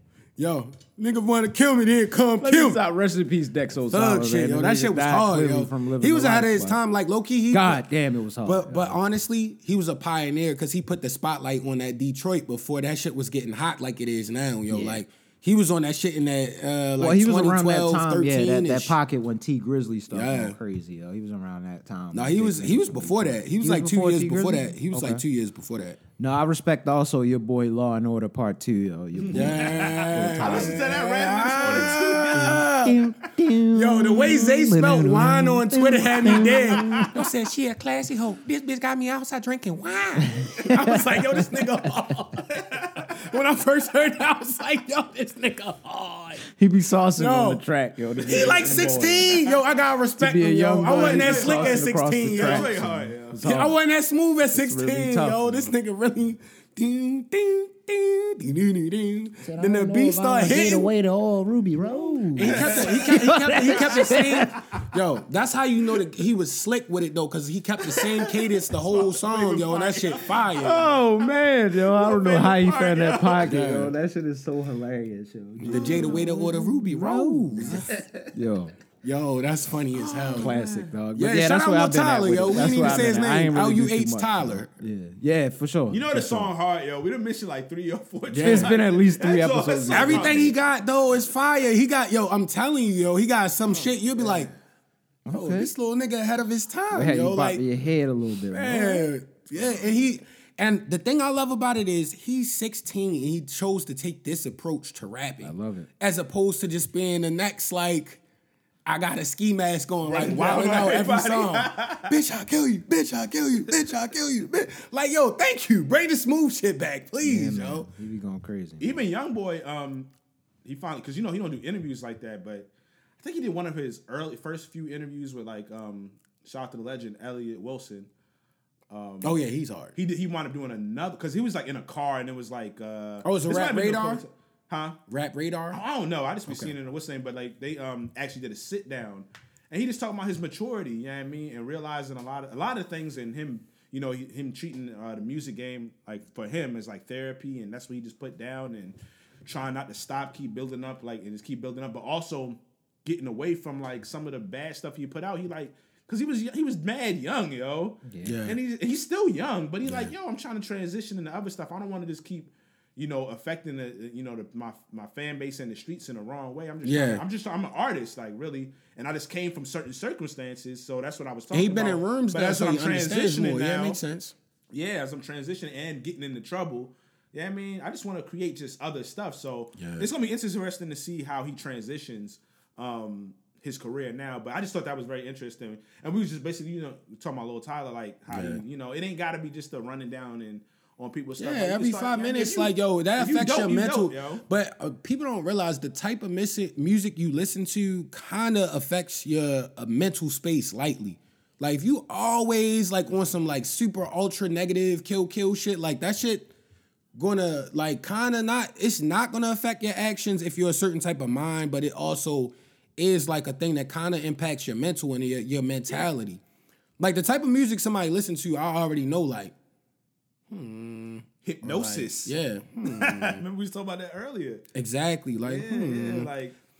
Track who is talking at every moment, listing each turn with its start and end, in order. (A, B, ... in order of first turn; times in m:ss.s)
0:00.4-0:02.8 A
0:02.4-0:06.8 B
0:03.9-0:07.8 A
0:07.5-0:09.0 B
0:08.4-0:19.0 A
0:14.7-0:15.0 B
0:17.0-0:25.2 B
0:20.1-0:20.6 A
0:22.1-0:26.0 A
0:26.2-0:30.9 B
0:29.2-0:32.7 C
0:29.3-0:33.0 A
0:31.6-0:37.2 B
0:33.7-0:46.5 A
0:36.4-0:37.1 C
0:40.2-0:41.9 B
0:42.5-0:43.0 C
0:46.4-0:49.5 B
0:47.2-0:47.6 A
0:48.2-0:52.7 A
0:48.2-0:49.8 C
0:50.2-0:53.8 B
0:50.9-0:53.4 C
0:53.4-1:00.9 A
0:54.5-0:55.7 B
0:59.4-1:04.7 B
1:01.9-1:04.6 C
1:02.3-1:10.8 A
1:07.9-1:11.0 C
1:10.6-1:18.7 B
1:11.8-1:13.6 C
1:13.4-1:13.9 A
1:15.6-1:17.9 A
1:15.7-1:16.2 C
1:19.0-1:20.6 A
1:20.0-1:20.9 C
1:20.3-1:26.5 B
1:21.1-1:24.7 A
1:25.9-1:30.5 C
1:28.3-1:28.7 A
1:28.4-1:30.6 B
1:29.9-1:34.5 A
1:33.7-1:34.5 C
1:35.2-1:35.7 B
1:35.3-1:37.6 A
1:36.9-1:39.1 B
1:38.5-1:48.2 A
1:45.4-1:45.9 B
1:48.8-1:57.9 A
1:50.0-1:52.2 C
1:57.2-1:59.0 B
1:58.8-2:00.1 C
2:00.6-2:02.7 C
2:03.2-2:08.1 C
2:08.9-2:09.4 C
2:09.2-2:09.9 A
2:09.9-2:15.0 C
2:13.2-2:14.2 A
2:15.1-2:15.8 A
2:15.7-2:54.0 C
2:38.0-2:38.4 B
2:38.2-2:38.6 A
2:39.8-2:40.1 A
2:46.8-2:47.2 A
2:51.5-2:54.3 A
2:54.7-3:14.4 C
2:59.8-3:00.1 A
3:08.3-3:08.6 A
3:11.4-3:26.5 A
3:27.1-3:36.4 A
3:37.0-3:39.5 A
3:40.5-3:43.4 A
3:41.4-3:42.3 C
3:42.8-3:44.6 C
3:44.7-3:46.3 A
3:45.4-3:46.5 C